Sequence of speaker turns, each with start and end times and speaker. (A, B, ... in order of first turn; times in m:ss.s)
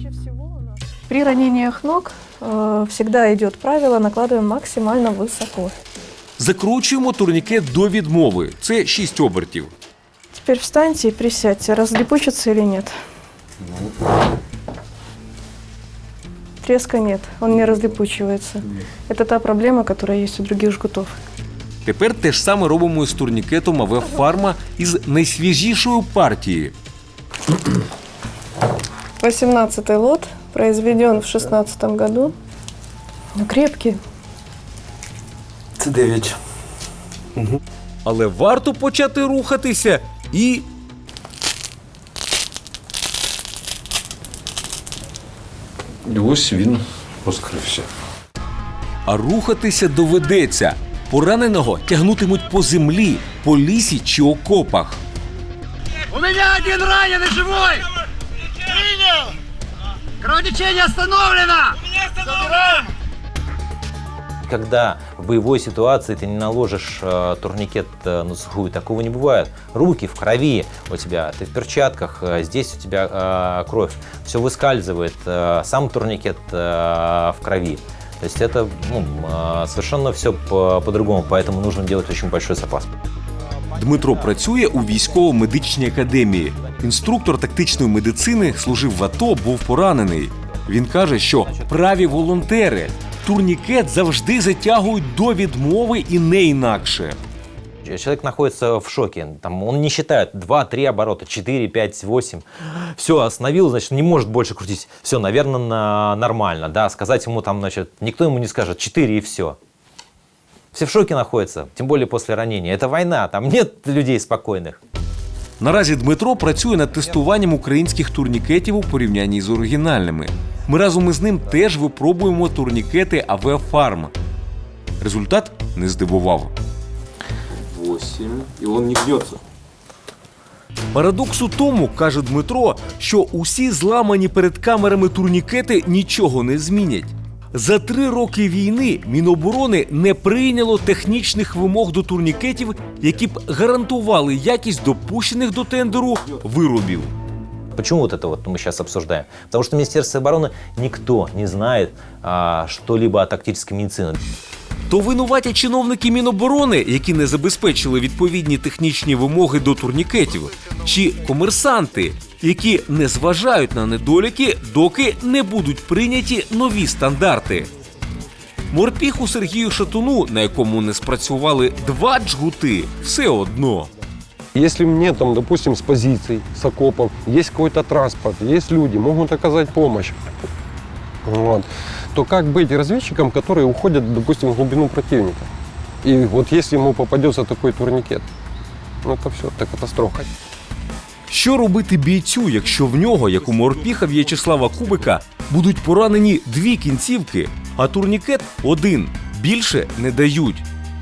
0:01.1-0:05.7 A
0:06.4-0:09.7 B
0:10.3-0:12.9 A
0:16.6-0:21.1 A
0:21.8-0:26.7 B
0:29.2-0:32.3 A
0:33.4-0:34.0 A
0:38.0-0:40.7 B
0:49.0-0:55.0 B
0:56.4-0:57.2 C
1:00.3-1:01.4 C
1:04.4-1:22.9 D
1:23.8-1:37.2 B
1:37.8-1:49.6 D
1:50.7-1:54.8 D
1:55.6-2:04.1 B
2:05.0-2:06.5 B
2:07.8-2:09.1 B
2:10.9-2:27.1 B
2:27.7-2:34.2 D
2:34.9-2:47.7 B
2:48.7-2:53.9 B
2:54.5-3:00.2 E
3:01.2-3:05.5 E
3:06.0-3:08.2 E
3:09.0-3:10.3 E
3:11.3-3:20.6 B